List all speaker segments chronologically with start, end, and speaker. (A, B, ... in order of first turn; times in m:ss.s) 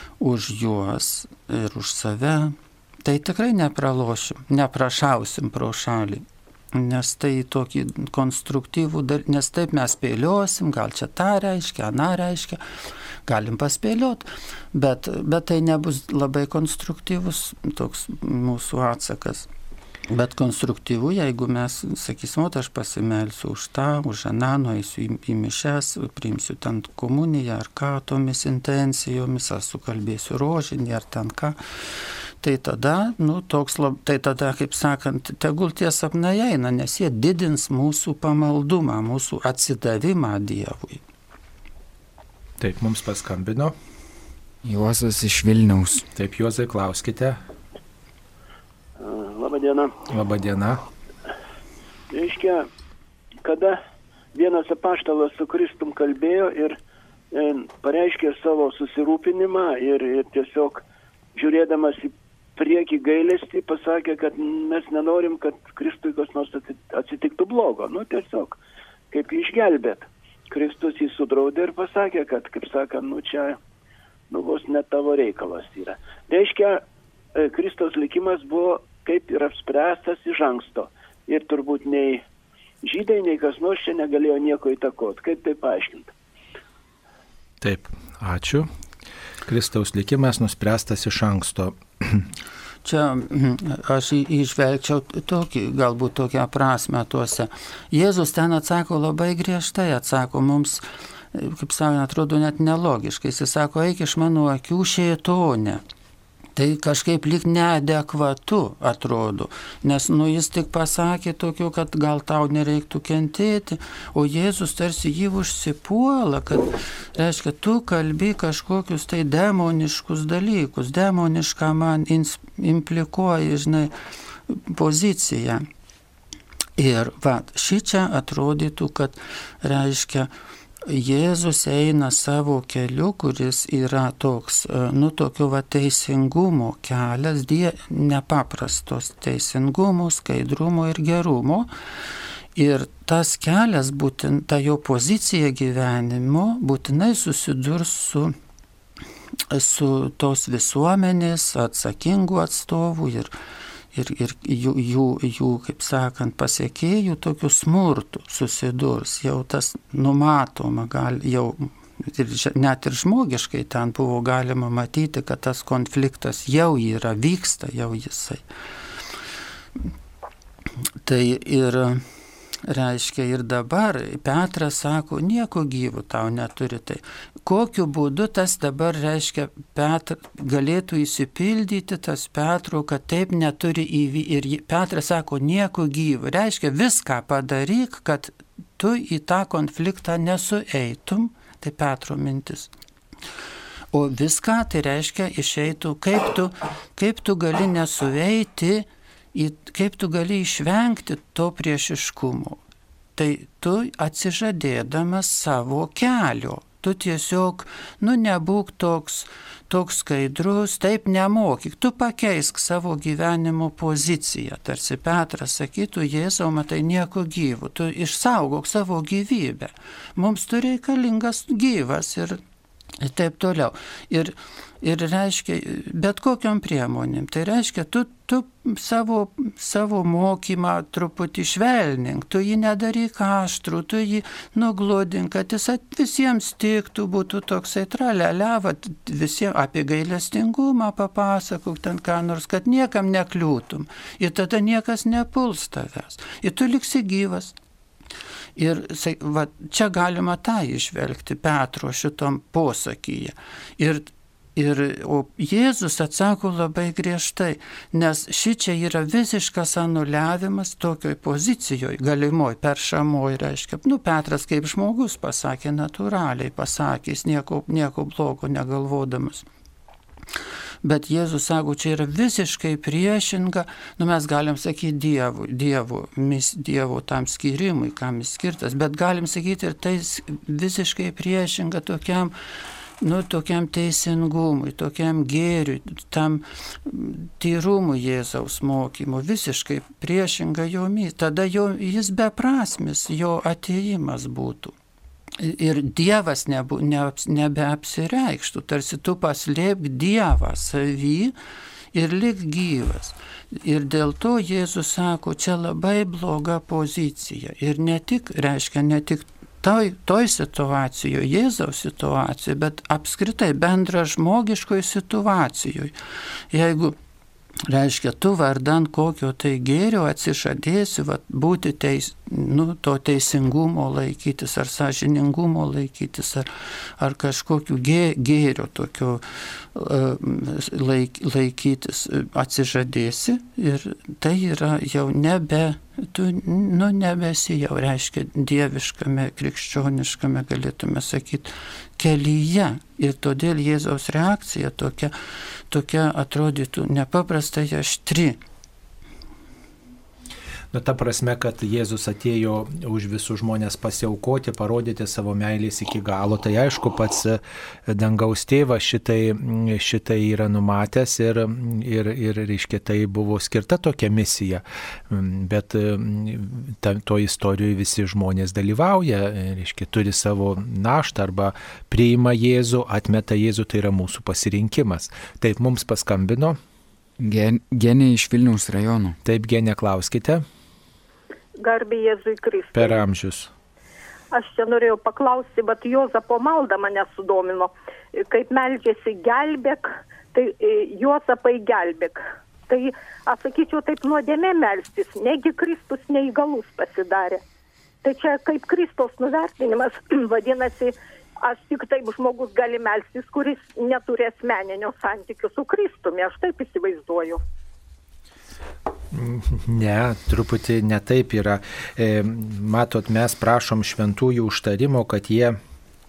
0:00.2-0:12.6 A
0:13.3-0:19.5 A
0:20.1-0:31.6 A
0:32.4-0:41.0 A
0:42.6-0:43.7 B
0:44.6-0:46.0 C
0:46.1-0:47.4 B
0:49.0-0:49.9 D
0:50.1-0:50.8 B
0:52.1-0:52.7 D
0:53.4-0:53.8 D
0:54.3-0:56.8 D
0:57.3-1:00.8 D
1:01.4-1:08.6 D
1:09.1-1:13.6 D
1:14.3-1:16.8 D
1:17.4-1:22.2 D
1:22.8-1:26.1 D
1:27.6-1:28.7 B
1:29.4-1:32.3 B
1:32.8-1:45.8 A
1:46.6-2:03.9 A
2:04.5-2:05.6 A
2:06.8-2:10.3 A
2:10.8-2:21.7 A
2:22.6-2:28.3 A
2:29.5-2:33.3 A
2:33.9-2:48.4 A
2:51.0-2:52.0 A
2:52.6-3:12.7 A
3:13.9-3:22.6 A
3:23.2-3:42.4 A
3:43.0-4:07.6 A
4:08.6-4:29.4 A
4:30.8-4:42.3 A
4:43.0-4:54.7 A
4:55.4-5:01.3 A
5:01.9-5:15.9 A
5:16.5-5:17.0 A
5:17.6-5:45.1 A
5:45.7-5:48.4 A
5:50.7-6:16.6 B
6:17.2-6:19.2 C
6:19.2-6:20.4 B
6:21.6-6:23.0 E
6:22.7-6:23.5 B
6:24.3-6:27.7 E
6:28.2-6:37.4 E
6:38.0-6:47.4 E
6:49.1-6:55.6 B